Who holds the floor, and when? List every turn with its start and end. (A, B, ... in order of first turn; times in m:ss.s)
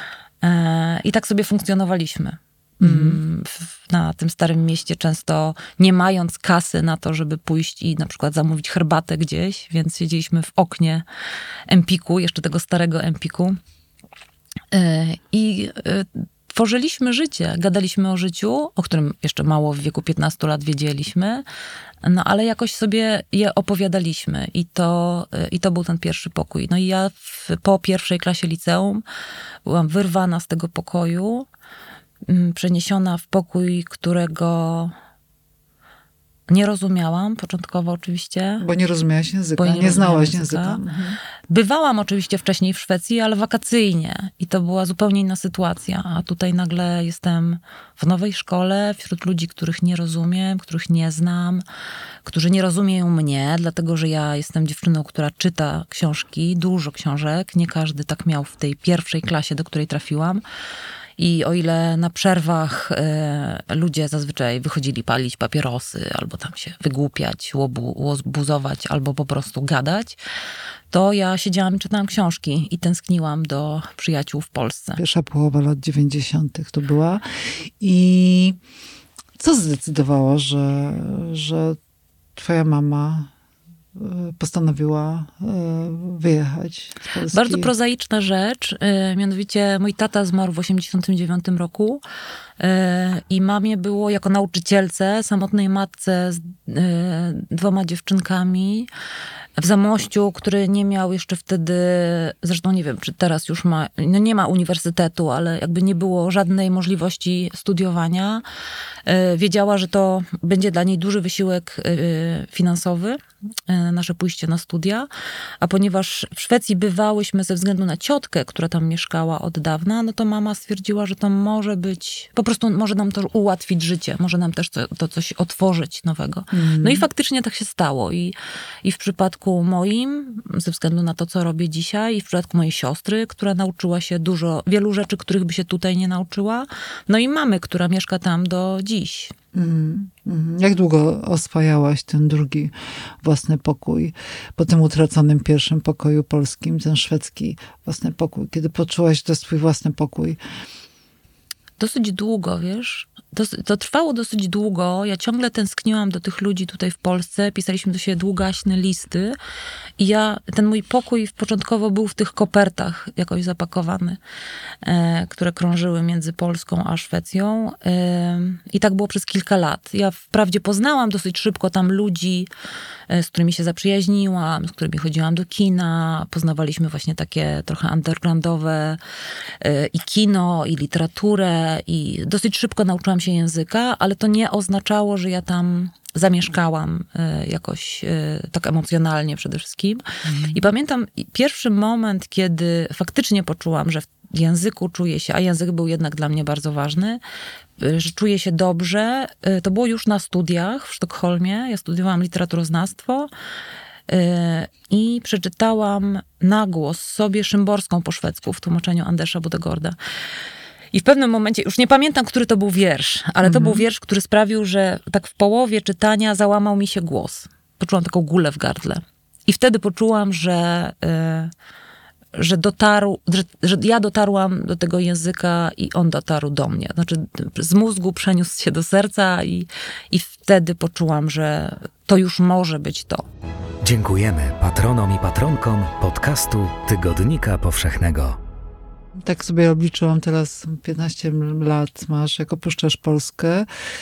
0:00.4-0:11.0 A
0:02.8-0:03.2 B
0:11.7-0:13.6 A
0:14.7-0:21.4 A
0:22.0-0:29.0 A
0:29.6-0:31.5 A
0:32.3-0:35.0 A
0:36.5-0:38.7 A
0:38.6-0:41.2 B
0:39.6-0:40.8 A
0:41.5-0:51.6 A
0:52.3-1:00.4 A
1:01.2-1:10.2 A
1:10.9-1:15.0 A
1:15.0-1:18.6 B
1:19.4-1:21.8 B
1:22.4-1:23.3 B
1:24.0-1:27.7 B
1:27.3-1:32.0 A
1:32.6-1:38.9 A
1:39.6-1:48.4 A
1:49.1-1:55.1 A
1:55.6-2:19.4 A
2:06.5-2:07.1 B
2:19.5-2:30.4 B
2:31.8-2:39.4 A
2:40.0-2:44.2 A
2:44.8-2:52.5 A
2:53.1-2:59.0 A
2:59.6-3:17.2 A
3:10.2-3:10.6 B
3:17.8-3:23.3 A
3:24.1-3:30.0 A
3:30.9-3:41.5 A
3:33.4-3:33.8 B
3:42.3-3:53.2 A
3:53.8-3:58.4 C
3:59.2-4:03.7 B